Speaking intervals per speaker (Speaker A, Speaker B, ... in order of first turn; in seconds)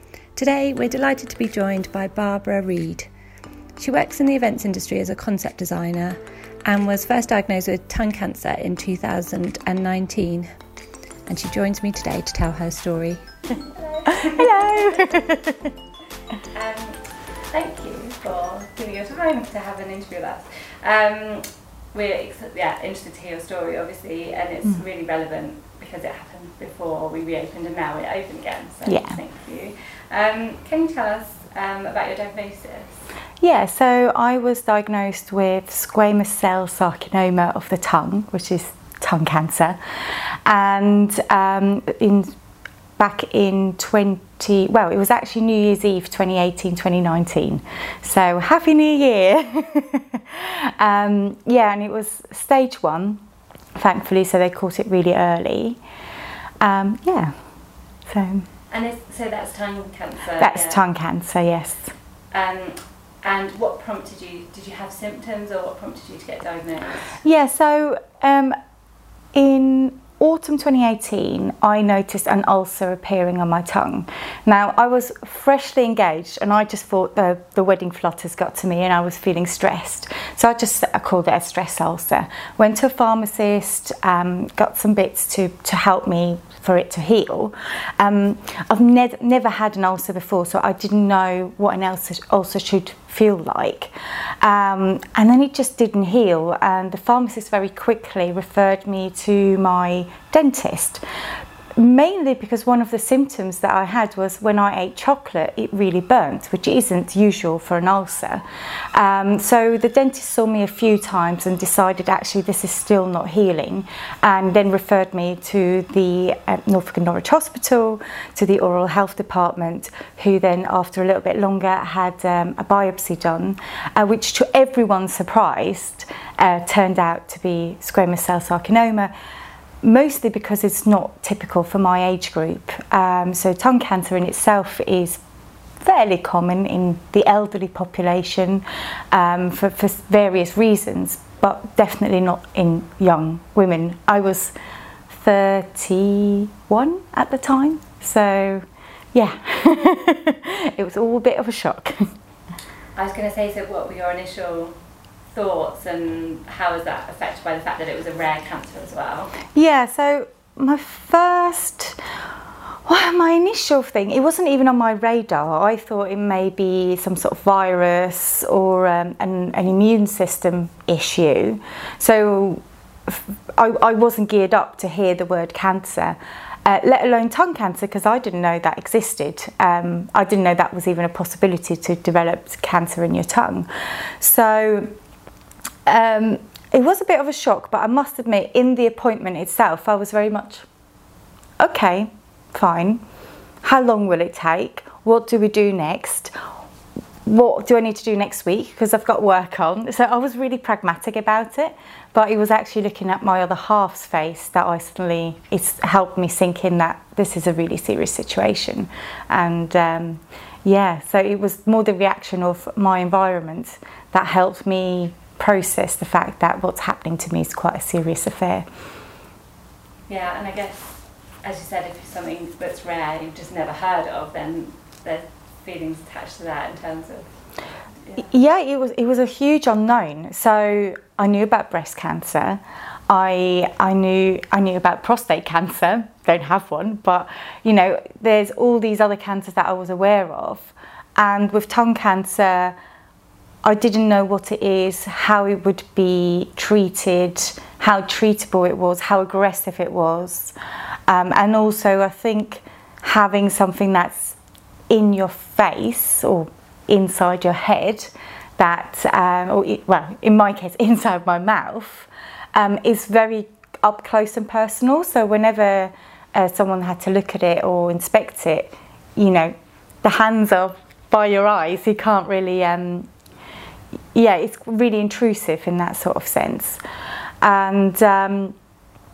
Speaker A: 0.3-3.1, 3.8-10.5, 11.2-15.2, 16.5-33.0, 58.7-60.8, 62.3-67.2, 152.9-154.8, 155.3-159.3, 220.1-227.3
Speaker B: 14.1-15.7, 28.9-29.2, 33.4-42.3, 43.0-53.2, 53.8-55.8, 56.6-57.3, 58.1-58.5, 60.4-61.9, 67.2-68.5, 69.3-101.0, 101.8-129.1, 129.8-135.2, 135.8-144.5, 145.1-152.1, 159.5-162.0, 162.8-183.7, 184.2-184.9, 185.8-190.7, 191.6-193.0, 193.6-196.3, 197.2-218.7, 228.2-242.7, 243.6-250.5, 251.1-254.4, 254.9-273.1, 274.1-276.8, 277.4-278.6